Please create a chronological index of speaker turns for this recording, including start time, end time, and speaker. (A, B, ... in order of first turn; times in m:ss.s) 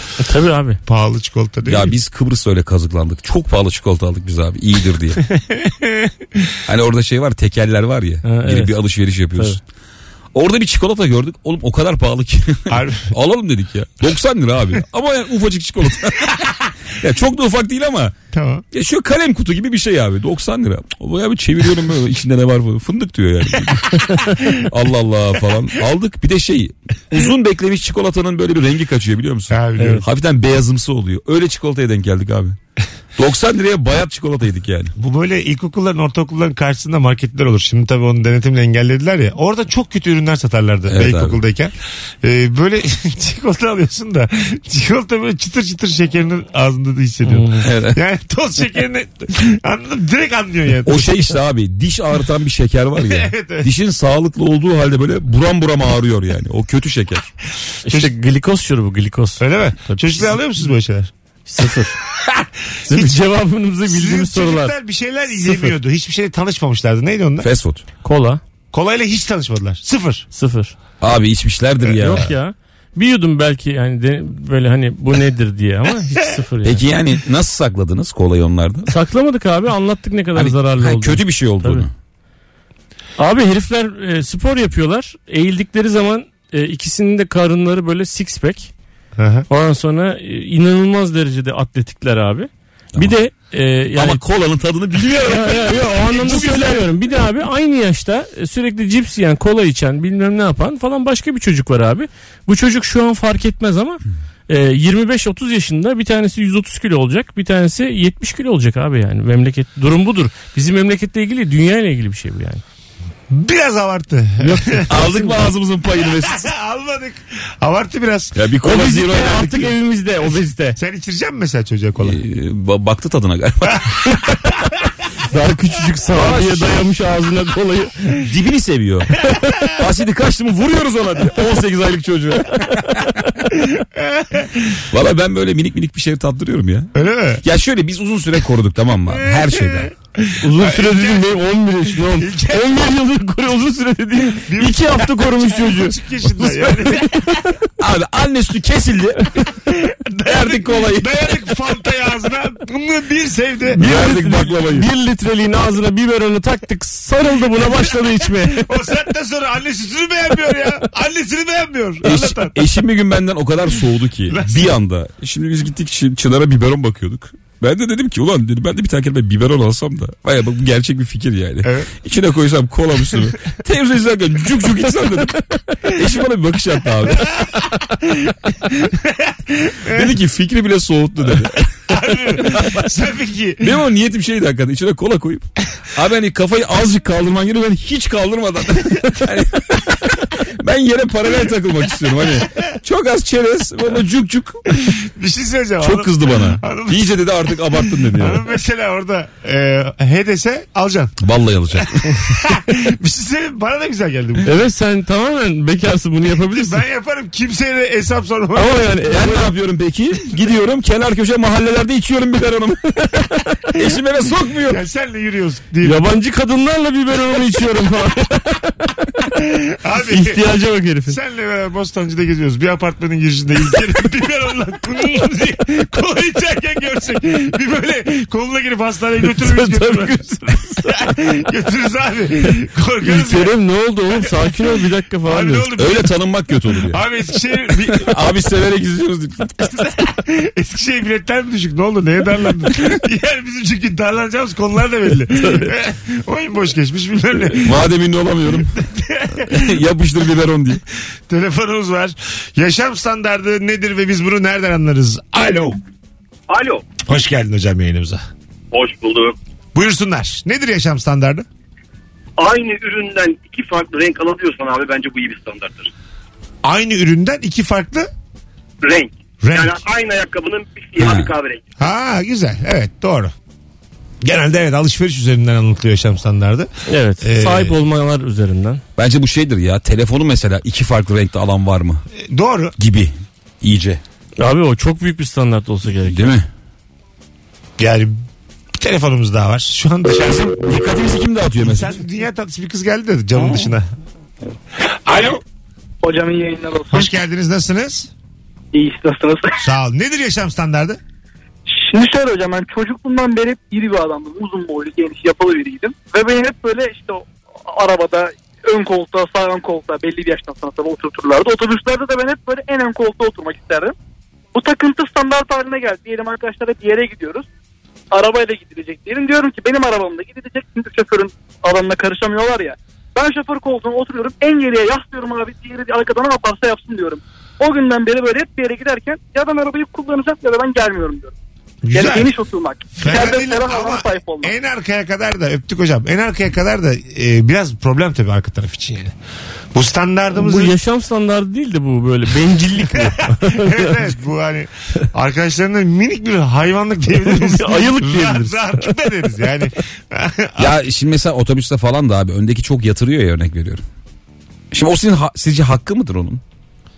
0:00.2-0:00.8 A
0:00.8-0:01.9 B
0:01.6-0:05.2 C
0:05.4-0:06.1 B
0:06.6-0:09.6 C
0:08.2-0:08.7 A
0:10.3-0:18.1 C
0:12.7-0:13.1 B
0:18.3-0:18.6 B
0:18.7-0:32.6 C
0:29.5-0:30.0 B
0:29.8-0:30.0 A
0:33.2-0:34.9 C
0:35.0-0:51.1 B
0:40.9-0:41.4 C
0:47.2-0:47.7 A
0:47.6-0:48.0 C
0:50.8-0:57.3 C
0:53.0-0:53.7 B
0:57.8-1:00.3 A
0:59.4-1:01.1 B
1:01.5-1:02.0 A
1:02.2-1:03.2 B
1:02.9-1:04.7 A
1:03.8-1:07.5 B
1:05.4-1:05.7 A
1:07.4-1:07.8 C
1:08.0-1:08.4 A
1:08.7-1:10.3 B
1:10.3-1:10.7 A
1:11.0-1:12.3 C
1:12.0-1:16.8 A
1:16.6-1:18.9 C
1:18.9-1:21.9 A
1:20.3-1:21.9 C
1:23.2-1:28.7 A
1:29.2-1:29.4 B
1:29.5-1:34.2 A
1:33.9-1:36.9 C
1:35.1-1:52.6 A
1:53.3-1:54.9 B
1:54.4-1:55.4 A
1:54.9-1:56.5 C
1:56.2-1:58.4 B
1:58.3-1:59.7 C
1:58.6-2:00.8 A
2:00.8-2:02.2 B
2:02.0-2:04.0 C
2:05.2-2:08.2 A
2:06.1-2:06.8 C
2:08.2-2:13.1 C
2:13.6-2:14.8 B
2:14.9-2:19.9 C
2:16.9-2:17.4 B
2:19.1-2:21.3 B
2:20.4-2:27.6 A
2:22.0-2:22.8 B
2:24.4-2:27.3 B
2:27.8-2:29.4 C
2:29.6-2:33.8 B
2:30.2-2:31.4 C
2:33.7-2:34.9 C
2:33.7-2:38.7 A
2:37.6-2:42.6 B
2:42.0-2:57.4 C
2:44.3-2:44.8 B
2:51.6-2:51.9 B
2:57.3-3:00.1 B
2:59.8-3:02.8 C
3:01.9-3:03.8 B
3:03.6-3:14.6 C
3:14.9-3:21.2 B
3:15.8-3:18.5 C
3:21.2-3:22.1 C
3:22.1-3:24.5 B
3:24.4-3:26.8 A
3:26.4-3:28.8 B
3:28.5-3:29.5 A
3:29.1-3:34.8 C
3:34.7-3:36.0 B
3:35.8-3:39.0 A
3:39.4-3:40.4 B
3:40.0-3:41.2 A
3:41.1-3:53.5 B
3:49.2-3:51.0 A
3:53.0-3:55.7 A
3:55.2-3:56.1 B
3:55.7-3:57.0 C
3:56.8-3:58.1 B
3:57.9-3:59.8 C
3:59.7-4:07.8 B
4:07.6-4:08.7 C
4:08.6-4:09.8 B
4:09.4-4:10.8 C
4:11.3-4:15.8 B
4:16.5-4:16.9 D
4:17.0-4:18.2 B
4:18.7-4:19.4 D
4:19.7-4:21.4 B
4:22.4-4:25.9 D
4:26.6-4:28.1 B
4:28.8-4:31.6 D
4:29.4-4:29.8 B
4:31.0-4:31.3 C
4:31.8-4:33.3 B
4:34.2-4:36.7 B
4:36.9-4:38.8 A
4:37.2-4:37.8 B
4:39.0-4:42.0 C
4:42.2-4:42.7 B
4:42.8-4:44.0 C
4:44.4-4:46.3 A
4:46.0-4:46.5 C
4:47.8-4:48.2 B
4:48.8-4:50.5 B
4:50.2-4:52.0 C
4:51.6-4:53.9 B
4:53.3-4:53.7 C
4:55.0-4:55.4 B
4:56.0-4:57.1 E
4:56.9-4:58.1 B
4:58.7-4:59.6 E
4:59.6-5:01.0 B
5:01.7-5:13.9 E
5:14.5-5:17.4 E
5:18.1-5:31.3 E
5:31.8-5:32.3 B
5:31.9-5:34.5 E
5:33.0-5:39.1 B
5:39.7-5:40.8 B
5:40.3-5:44.0 A
5:43.0-5:50.7 B
5:47.2-5:48.9 A
5:50.6-5:53.8 C
5:54.7-5:56.4 C